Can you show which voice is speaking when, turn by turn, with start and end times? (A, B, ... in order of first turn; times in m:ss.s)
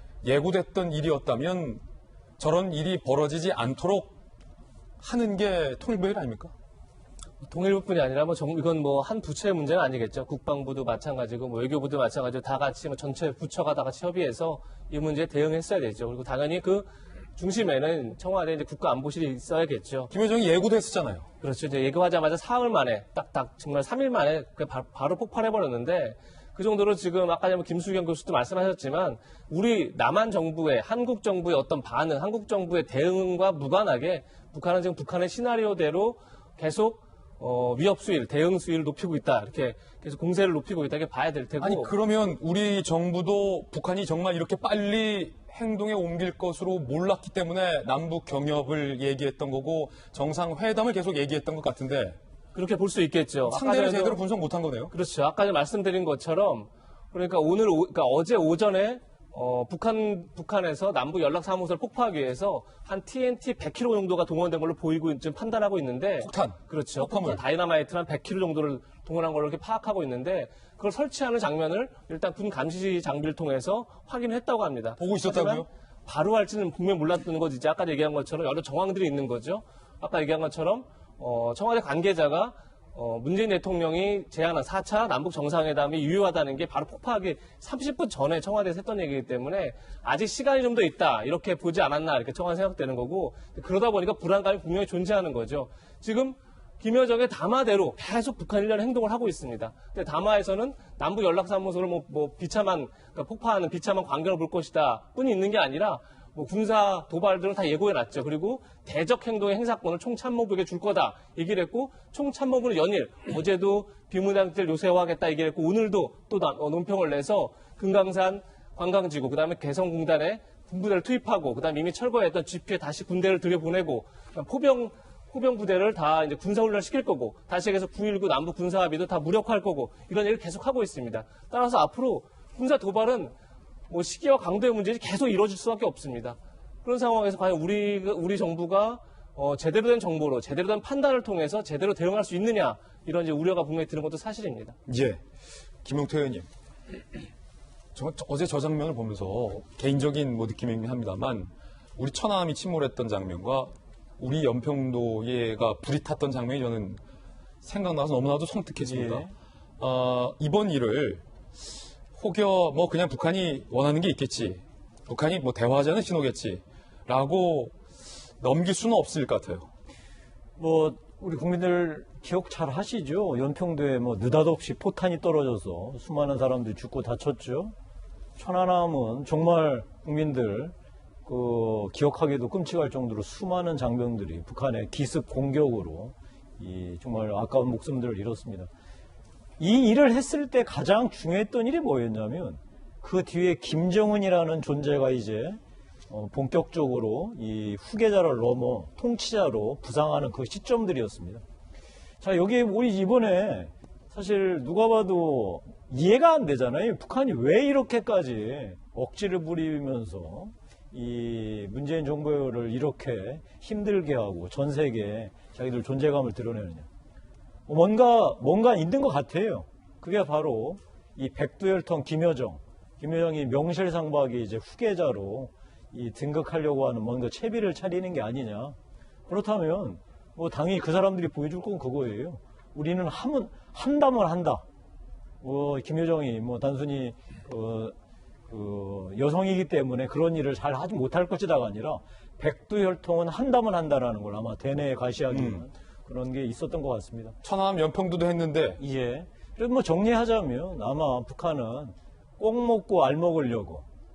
0:00.2-0:01.8 A
0:02.4-0:04.1 A
0:05.0-0:06.5 A
0:07.4-0:20.1 B
0:20.1-0:21.3 A
0:21.4-0:41.9 B
0:41.6-0:52.2 A
0:52.5-0:54.2 B
0:53.4-0:54.9 A
0:54.9-2:13.3 B
1:06.2-1:07.4 A
1:15.0-1:15.7 A
2:13.9-2:24.7 B
2:24.9-2:25.2 A
2:25.8-2:26.5 A
2:27.9-2:37.0 A
2:37.6-2:39.2 A
2:38.8-2:39.3 C
2:39.8-2:41.2 A
2:42.1-2:47.8 A
2:48.4-2:49.7 A
2:50.6-2:57.7 C
2:58.4-3:00.7 C
3:01.2-3:08.7 C
3:09.6-3:21.4 C
3:22.2-3:36.9 C
3:37.7-3:48.8 C
3:49.3-3:54.6 C
3:55.4-3:57.9 C
3:58.5-4:07.4 C
4:05.3-4:05.6 A
4:07.4-4:08.8 A
4:08.8-4:13.8 C